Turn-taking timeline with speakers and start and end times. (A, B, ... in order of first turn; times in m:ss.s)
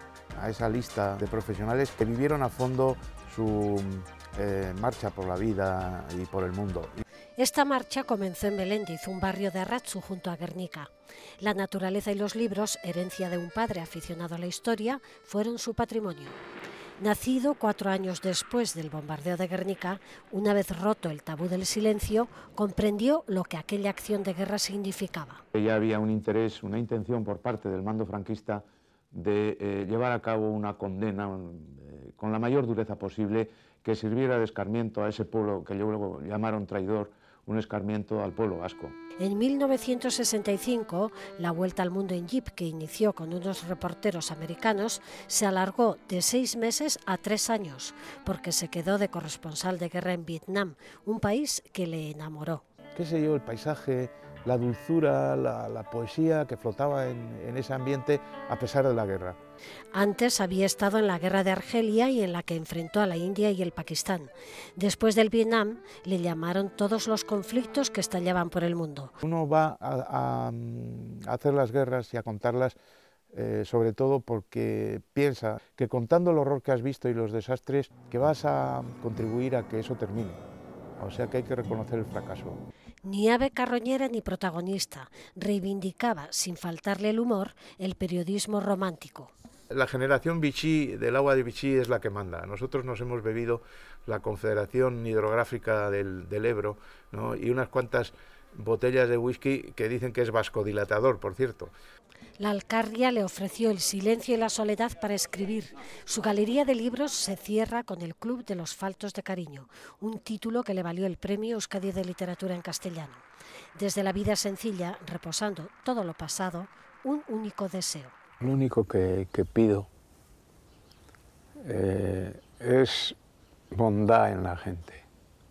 0:00.4-0:07.0 A
0:07.4-0:16.4 B
0:17.0-0:25.4 B
0:25.5-0:39.0 A
0:39.2-0:52.6 B
0:52.9-0:59.4 A
0:59.9-1:09.2 B
1:09.2-1:12.8 A
1:13.3-1:20.4 A
1:21.0-1:22.6 A
1:23.0-1:29.3 B
1:29.7-1:41.7 A
1:42.4-1:53.2 B
1:53.8-1:58.1 B
1:58.4-1:59.9 C
2:01.6-2:03.2 C
2:03.7-2:05.0 C